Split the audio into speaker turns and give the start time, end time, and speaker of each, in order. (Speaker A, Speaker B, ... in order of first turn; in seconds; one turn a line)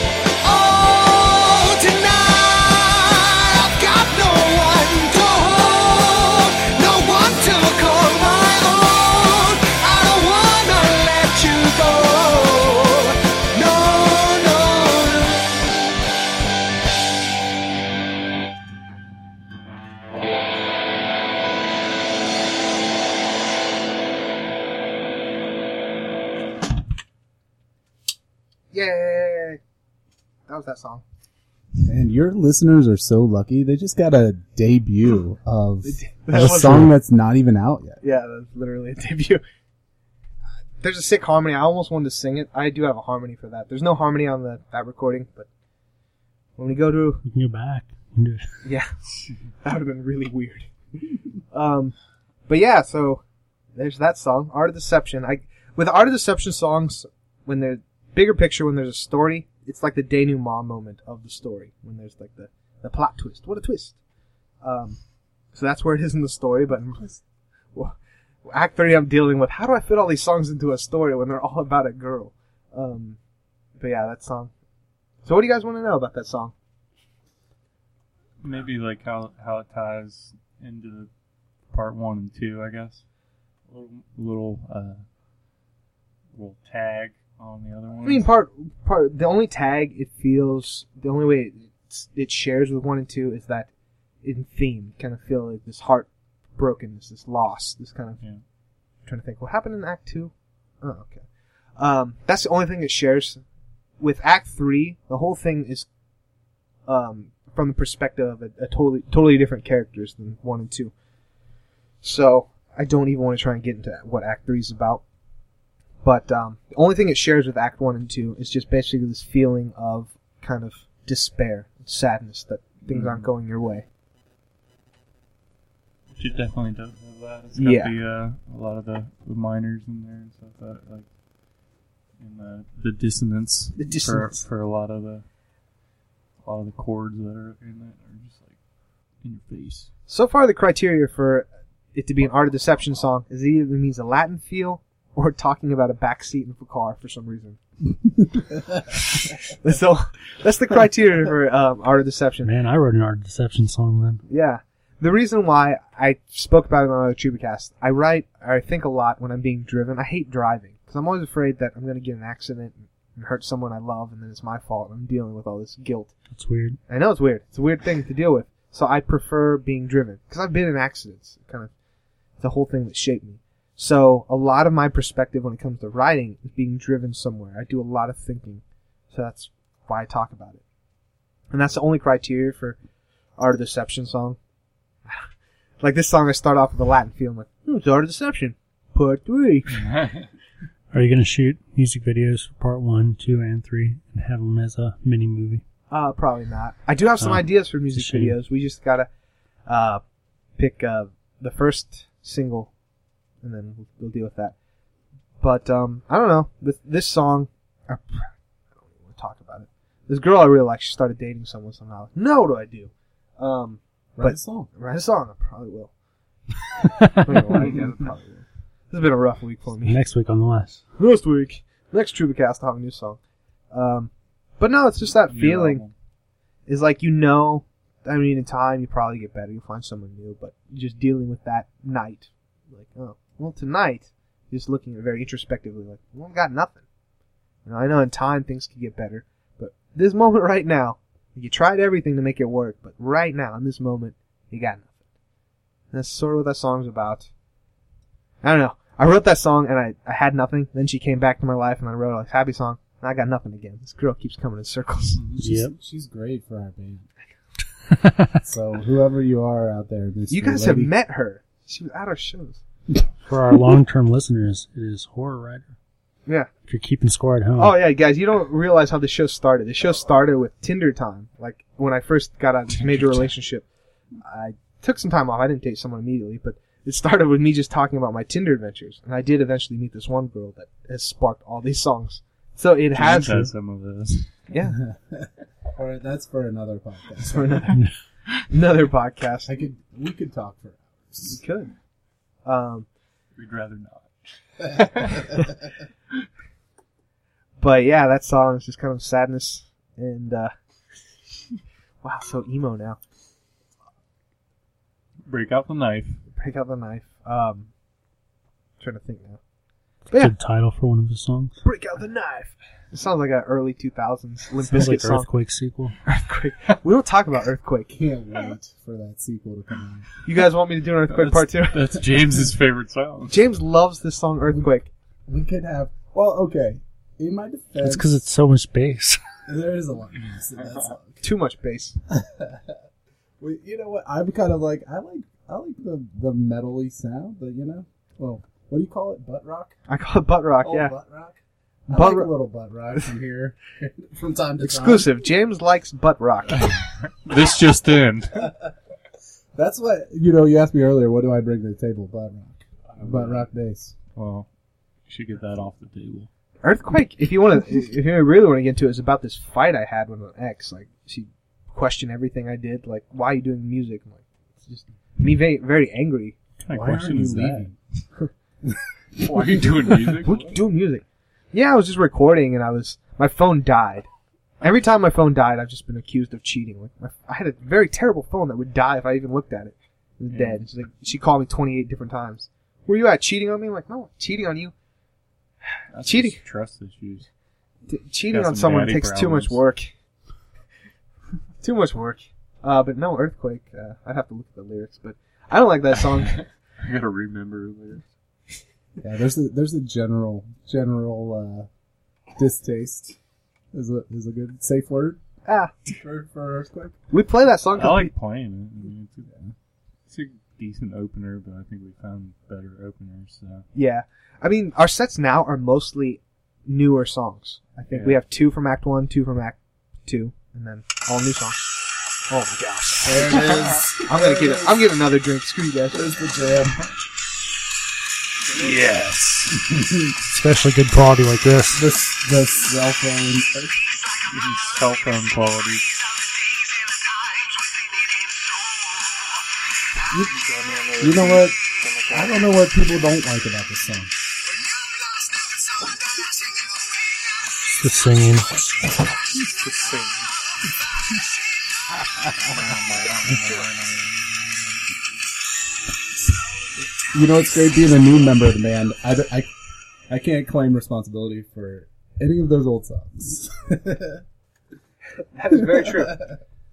Speaker A: 0.4-15.5
Speaker B: 28.7-29.6
Speaker B: 30.5-31.0
Speaker C: 31.8-38.0
Speaker B: 35.8-36.9
Speaker B: 38.0-39.4
Speaker B: 40.8-45.5
Speaker B: 46.6-47.2
Speaker D: 47.2-48.5
Speaker B: 48.6-48.9
Speaker B: 49.6-50.7
Speaker B: 51.5-51.9
Speaker B: 52.5-53.2
Speaker B: 53.8-64.0
Speaker B: 64.6-65.0
Speaker B: 65.5-67.2
Speaker B: 68.5-73.2
Speaker B: 73.8-74.5
Speaker B: 75.2-76.5
Speaker E: 78.4-81.1
Speaker E: 81.7-83.0
Speaker E: 83.7-85.0
Speaker E: 86.3-88.3
Speaker B: 88.0-93.7
Speaker B: 94.2-98.2
Speaker B: 99.1-101.2
Speaker B: 101.8-103.4
Speaker B: 104.0-105.9
Speaker B: 106.9-110.9
Speaker B: 112.0-115.0
Speaker B: 116.0-123.9
Speaker E: 122.9-123.3
Speaker E: 126.1-131.1
Speaker B: 127.6-127.9
Speaker E: 132.2-135.2
Speaker B: 133.8-134.4
Speaker E: 136.4-138.5
Speaker E: 139.2-139.9
Speaker B: 140.1-147.6
Speaker B: 149.3-152.5
Speaker D: 152.4-154.2
Speaker B: 154.3-166.1
Speaker D: 166.3-166.8
Speaker B: 166.9-171.7
Speaker B: 172.4-180.6
Speaker B: 181.5-182.8
Speaker B: 183.4-184.4
Speaker B: 185.8-189.9
Speaker E: 189.7-190.3
Speaker D: 190.9-195.6
Speaker B: 195.9-199.1
Speaker D: 197.2-198.4
Speaker B: 199.7-200.0
Speaker B: 200.6-202.7
Speaker B: 203.4-204.6
Speaker B: 205.4-208.3
Speaker B: 208.9-215.9
Speaker C: 214.2-214.7
Speaker B: 217.2-220.0
Speaker D: 219.8-220.8
Speaker B: 221.0-223.2
Speaker B: 223.7-225.8
Speaker E: 225.3-225.9
Speaker B: 226.7-236.8
Speaker B: 237.7-244.9
Speaker B: 245.9-247.3
Speaker B: 248.4-255.2
Speaker E: 255.2-255.5
Speaker C: 255.4-257.1
Speaker D: 255.4-255.8
Speaker C: 258.4-260.9
Speaker B: 260.3-262.6
Speaker D: 263.3-265.7
Speaker D: 266.7-267.8
Speaker B: 267.6-273.7
Speaker E: 272.8-273.3
Speaker B: 274.2-283.5
Speaker E: 282.9-284.3
Speaker D: 283.2-283.5
Speaker B: 284.5-284.8
Speaker C: 284.8-287.6
Speaker B: 287.2-287.8
Speaker B: 288.5-289.5
Speaker C: 289.5-291.4
Speaker B: 291.2-291.7
Speaker B: 292.4-292.9
Speaker E: 293.4-295.3
Speaker B: 297.6-300.5
Speaker B: 302.0-303.0
Speaker E: 305.3-306.2
Speaker B: 306.4-307.7
Speaker B: 308.8-309.4
Speaker D: 310.1-311.6
Speaker B: 311.6-315.3
Speaker D: 314.7-316.0
Speaker B: 316.1-318.0
Speaker C: 317.9-320.1
Speaker B: 320.2-322.0
Speaker E: 321.2-323.4
Speaker B: 323.3-324.9
Speaker C: 325.3-328.1
Speaker D: 327.8-329.2
Speaker C: 329.5-331.2
Speaker B: 331.2-332.0
Speaker C: 332.1-332.7
Speaker C: 333.4-339.7
Speaker B: 339.9-340.9
Speaker C: 340.6-341.4
Speaker C: 341.9-345.1
Speaker B: 341.9-342.3
Speaker B: 344.6-346.8
Speaker E: 346.5-348.5
Speaker C: 349.6-353.9
Speaker E: 352.9-353.5
Speaker E: 354.1-354.5
Speaker E: 355.1-356.3
Speaker B: 356.6-366.4
Speaker E: 366.6-367.7
Speaker C: 366.7-367.8
Speaker E: 369.2-370.6
Speaker B: 370.2-374.1
Speaker B: 374.6-384.7
Speaker E: 380.3-380.6
Speaker E: 385.9-387.3
Speaker B: 386.0-386.4
Speaker B: 387.9-389.9
Speaker E: 388.3-389.6
Speaker B: 391.6-396.4
Speaker E: 396.2-398.1
Speaker C: 399.0-401.7
Speaker C: 402.4-403.2
Speaker C: 403.7-405.2
Speaker B: 405.5-405.7
Speaker C: 405.9-407.0
Speaker B: 407.1-408.1
Speaker E: 407.7-409.3
Speaker E: 410.1-413.7
Speaker B: 413.8-421.6
Speaker E: 417.9-418.2
Speaker B: 422.3-426.1
Speaker C: 423.0-424.8
Speaker C: 425.9-426.8
Speaker E: 428.5-429.6
Speaker C: 429.6-430.1
Speaker D: 430.3-431.8
Speaker C: 431.7-433.8
Speaker E: 434.3-435.9
Speaker E: 440.3-442.5
Speaker C: 441.0-441.6
Speaker C: 442.1-444.1
Speaker D: 447.7-448.5
Speaker E: 449.5-450.3
Speaker E: 452.5-454.8
Speaker C: 457.1-459.5
Speaker C: 460.1-464.2
Speaker B: 465.4-466.2
Speaker C: 465.5-466.2